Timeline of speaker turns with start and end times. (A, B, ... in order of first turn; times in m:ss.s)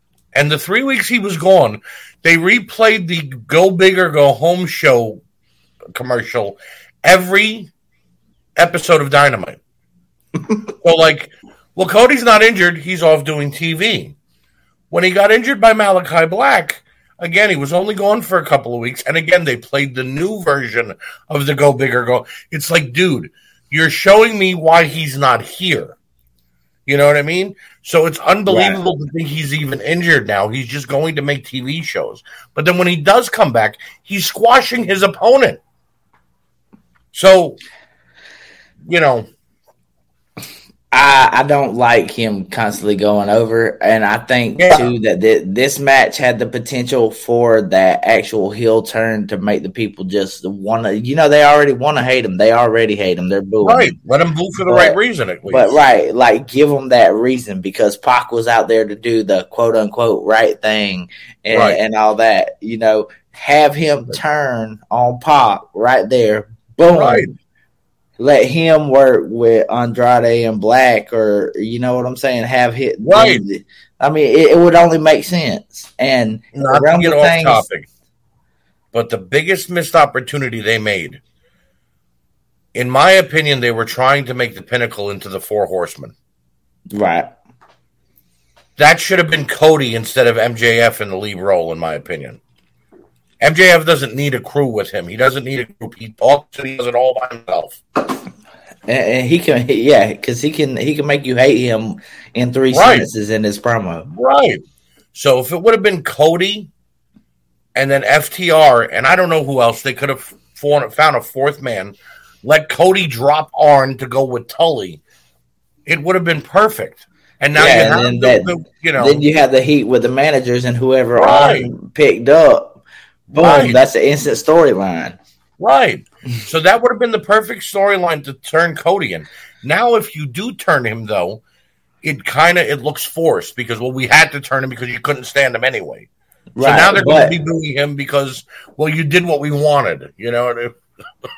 0:00.4-0:05.2 A
0:05.9-0:07.7 A
0:08.6-0:09.6 A
0:10.8-0:14.2 A
0:14.9-0:26.0 A
0:26.9-0:35.6 A
0:28.5-0:28.8 B
0:37.1-0:37.6 A
0:38.8-0:39.3 A
0:40.9-0:53.9 B
0:44.6-0:44.9 A
0:53.6-0:55.8 A
0:54.7-0:55.0 B
0:55.5-1:07.3 B
1:01.5-1:01.8 A
1:06.9-1:07.3 A
1:08.2-1:17.7 B
1:13.0-1:13.4 A
1:16.5-1:17.9 A
1:18.9-1:21.2 A
1:22.8-1:26.1 A
1:26.9-1:27.3 B
1:28.8-1:32.4 A
1:33.4-1:37.8 A
1:38.9-1:44.1 B
1:42.7-1:43.1 A
1:44.1-1:44.6 A
1:45.1-1:46.7 A
1:47.8-1:55.0 A
1:55.9-1:59.2 A
1:57.6-2:02.8 B
2:01.2-2:01.7 A
2:03.3-2:03.8 A
2:03.3-2:05.2 B
2:05.6-2:11.4 A
2:12.0-2:16.1 A
2:16.6-2:17.4 B
2:16.6-2:20.8 A